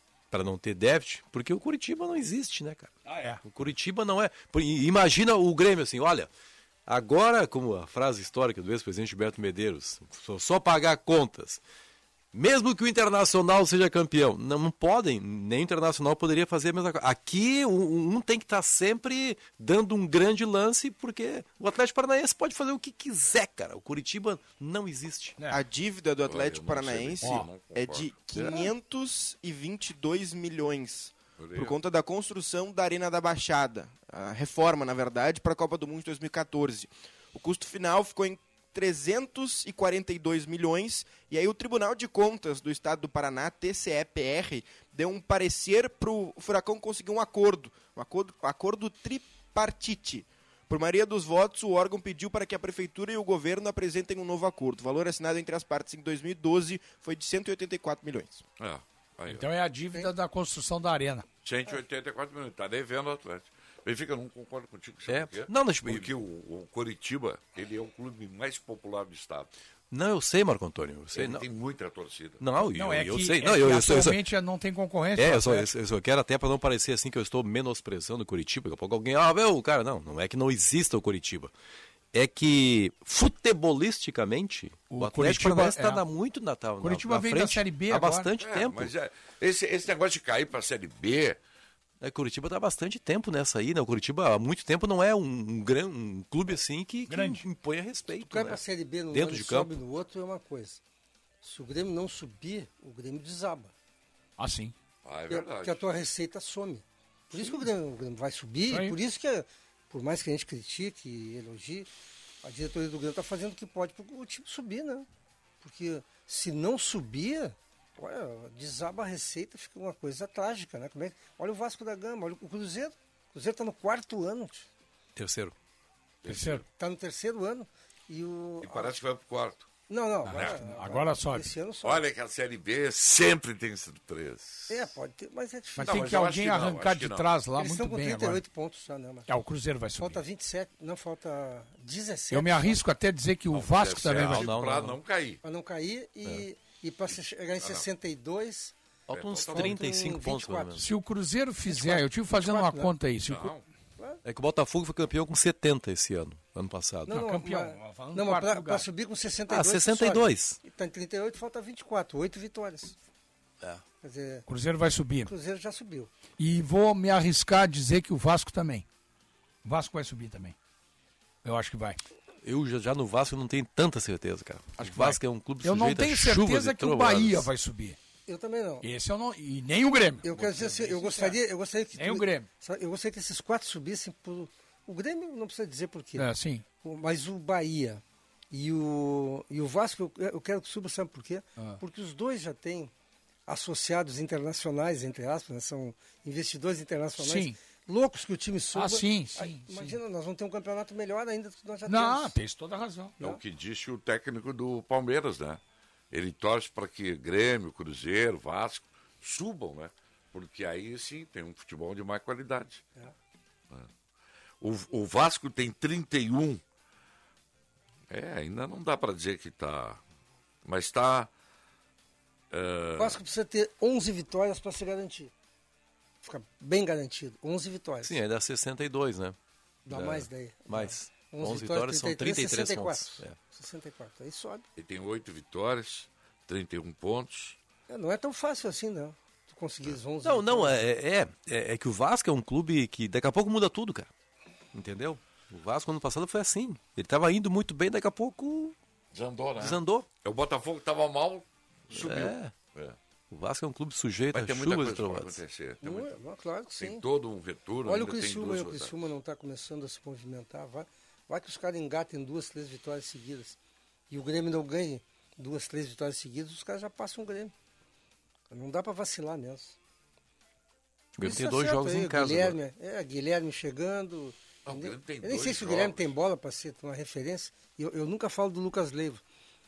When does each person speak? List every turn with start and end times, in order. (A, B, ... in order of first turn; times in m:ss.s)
0:00.3-0:06.3 A
0:03.0-0:03.4 B
0:06.8-0:11.6 A
0:12.3-0:25.4 A
0:25.5-0:58.4 C
0:26.2-0:28.7 D
0:31.4-0:31.8 D
0:58.6-0:59.5 D
0:59.3-1:01.2 B
1:01.4-1:09.5 D
1:05.1-1:06.1 A
1:09.9-1:11.5 A
1:11.1-1:12.4 D
1:12.4-1:14.2 A
1:12.6-1:15.7 B
1:15.2-1:21.5 A
1:22.1-1:28.9 A
1:24.9-1:26.0 B
1:26.8-1:28.3 B
1:28.4-1:31.4 D
1:32.0-1:38.6 A
1:37.1-1:37.4 B
1:38.2-1:40.8 E
1:39.1-1:39.8 A
1:41.4-1:43.7 E
1:44.4-1:44.7 B
1:45.0-1:45.8 D
1:45.3-1:51.9 E
1:48.7-1:49.0 B
1:52.4-1:55.1 E
1:55.6-2:04.7 E
2:05.2-2:05.6 A
2:06.2-2:06.6 D
2:06.2-2:06.6 B
2:06.8-2:09.0 E
2:08.6-2:09.7 D
2:09.9-2:12.0 E
2:10.2-2:11.5 B
2:10.3-2:10.6 D
2:11.8-2:14.7 D
2:14.7-2:16.2 E
2:15.8-2:18.4 B
2:15.8-2:17.3 D
2:17.6-2:19.3 E
2:19.3-2:20.2 B
2:20.0-2:22.8 E
2:22.3-2:24.5 B
2:23.5-2:25.4 D
2:24.0-2:25.0 A
2:25.4-2:28.7 E
2:27.6-2:27.8 D
2:29.1-2:30.8 A
2:29.1-2:29.8 D
2:29.5-2:30.8 E
2:30.8-2:33.5 B
2:31.7-2:32.9 E
2:33.3-2:33.6 D
2:34.2-2:37.2 A
2:37.0-2:43.0 E
2:37.1-2:38.8 B
2:39.5-2:40.6 A
2:44.0-2:44.5 E
2:44.5-2:45.3 B
2:45.2-2:46.1 E
2:46.4-2:48.8 B
2:49.6-2:50.5 B
2:51.4-2:52.0 B
2:52.4-2:57.5 A
2:54.8-2:58.0 B
2:58.3-2:58.8 E
2:58.8-3:01.4 B
3:00.2-3:06.3 E
3:02.0-3:02.5 B
3:06.2-3:06.6 B
3:06.8-3:12.9 E
3:13.5-3:22.3 E
3:17.2-3:17.6 B
3:18.7-3:20.0 B
3:21.9-3:23.1 B
3:23.2-3:25.6 D
3:26.1-3:32.8 D
3:34.6-3:36.6 D
3:38.1-3:40.0 D
3:40.6-3:41.3 D
3:42.5-3:43.2 D
3:43.0-3:45.3 E
3:46.2-3:48.2 E
3:48.0-3:49.4 A
3:49.8-3:54.7 E
3:49.9-3:53.4 A
3:54.8-3:57.6 D
3:57.9-4:00.8 E
4:00.2-4:04.1 A
4:04.7-4:08.8 A
4:09.1-4:13.0 D
4:09.6-4:10.1 A
4:11.9-4:12.5 A
4:13.3-4:15.4 A
4:14.3-4:16.2 D
4:15.8-4:17.0 E
4:16.7-4:18.9 D
4:17.8-4:23.6 E
4:24.1-4:27.5 E
4:28.5-4:29.8 E
4:31.2-4:32.6 A
4:31.2-4:39.2 E
4:34.6-4:36.1 D